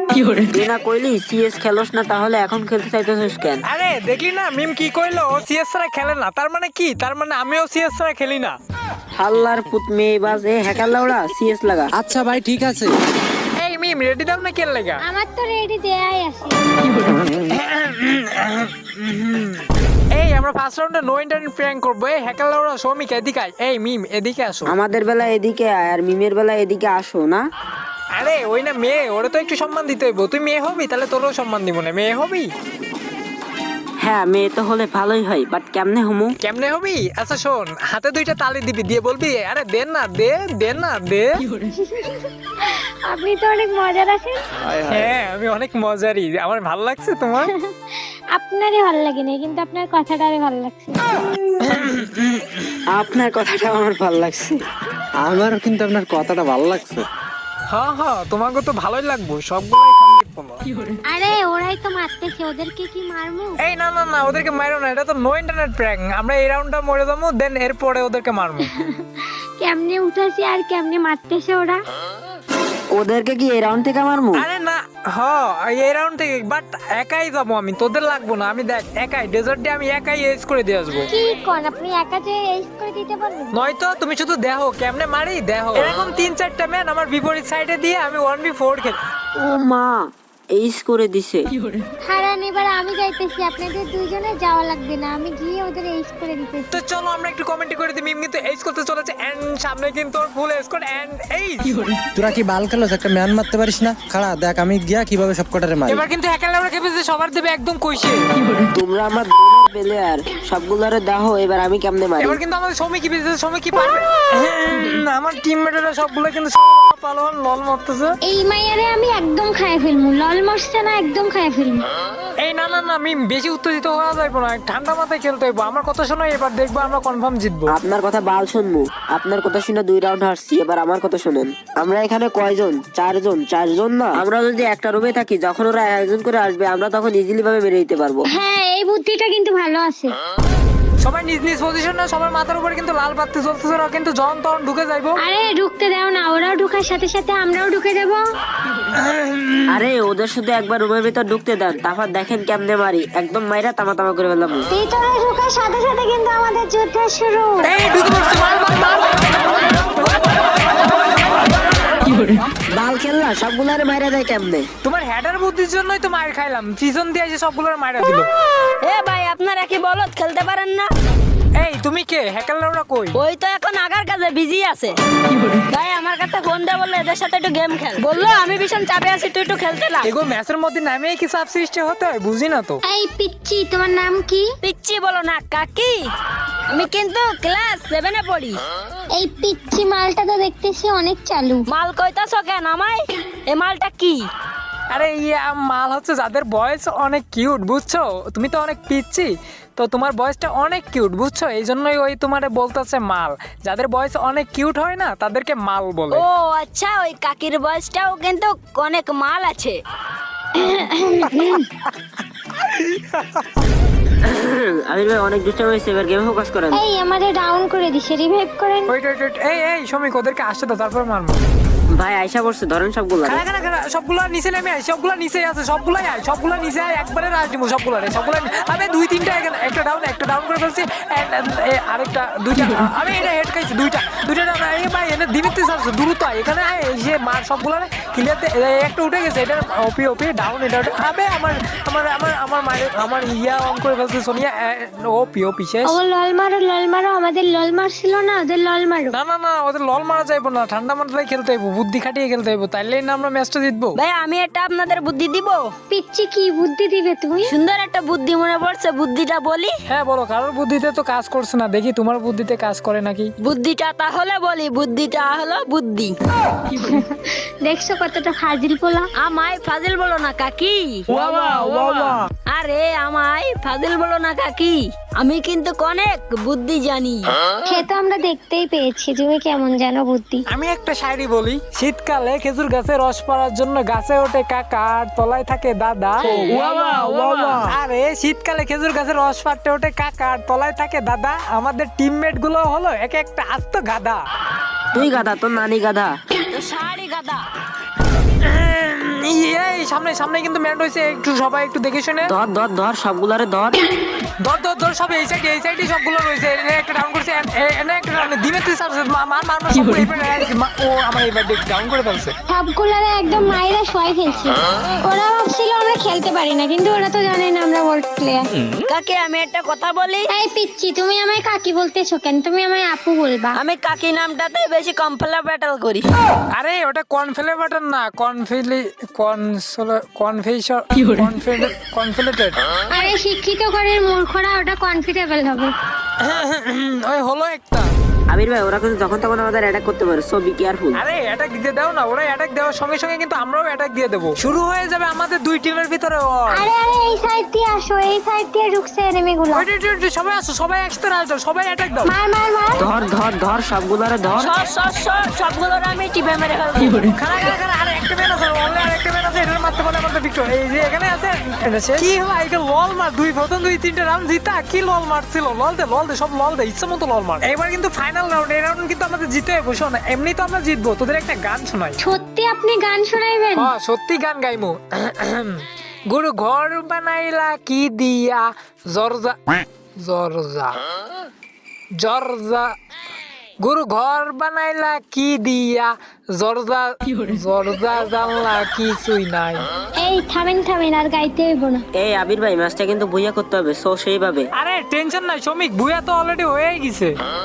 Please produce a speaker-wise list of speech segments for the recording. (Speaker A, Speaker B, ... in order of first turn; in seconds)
Speaker A: 0.5-3.6, 9.2-11.9, 24.7-27.4, 34.0-36.4, 52.9-54.6, 72.9-74.4, 89.4-91.5, 108.8-112.4, 127.7-138.3, 149.7-154.7, 162.7-164.7, 214.2-216.8, 221.9-223.4, 294.9-296.1, 302.3-303.8, 338.3-341.0, 352.8-354.5, 392.0-394.5
Speaker B: 3.7-8.6, 13.6-15.0, 17.2-24.7, 28.1-32.5, 36.4-41.5, 44.9-47.5, 51.8-52.3, 57.7-60.6, 63.6-68.7, 74.4-81.1, 83.5-89.0, 96.7-101.8, 105.9-108.2, 112.2-118.2, 122.4-127.7, 141.0-145.2, 148.9-149.8, 157.6-159.7, 164.8-168.3, 171.6-173.2, 180.0-182.8, 194.9-206.2, 212.6-213.4, 218.9-221.4, 223.2-246.0, 249.1-254.0, 259.9-263.3, 280.5-286.3, 287.7-294.2, 298.2-302.3, 304.4-312.3, 326.5-332.6, 336.2-337.9, 340.9-346.7, 349.5-352.1, 357.1-372.0, 373.6-380.8, 382.0-382.7, 383.6-389.6, 394.6-397.2
Speaker C: 11.9-12.9, 44.7-45.1, 55.2-57.1, 102.2-106.1
Speaker D: 15.0-16.6, 41.7-44.4, 47.4-51.0, 61.1-63.6, 68.7-71.8, 81.1-83.5, 92.1-96.8, 118.2-121.9, 138.3-140.1, 145.2-148.2, 154.7-157.7, 182.9-184.5, 189.2-191.7, 210.6-211.7, 216.7-218.9, 245.9-249.1, 255.9-257.6, 266.7-269.1, 277.7-280.4, 312.5-318.5, 320.3-323.6, 332.9-335.7, 346.5-349.7, 352.0-352.8, 372.0-373.7, 390.0-391.9
Speaker E: 168.8-170.9, 173.2-174.9, 175.7-180.1, 184.6-186.1, 186.7-188.6, 191.7-194.2, 206.1-209.8, 253.9-255.7, 257.4-259.7, 263.4-266.2, 269.2-277.3, 286.3-287.6, 296.5-297.4, 318.8-320.3, 323.5-326.1, 354.4-357.1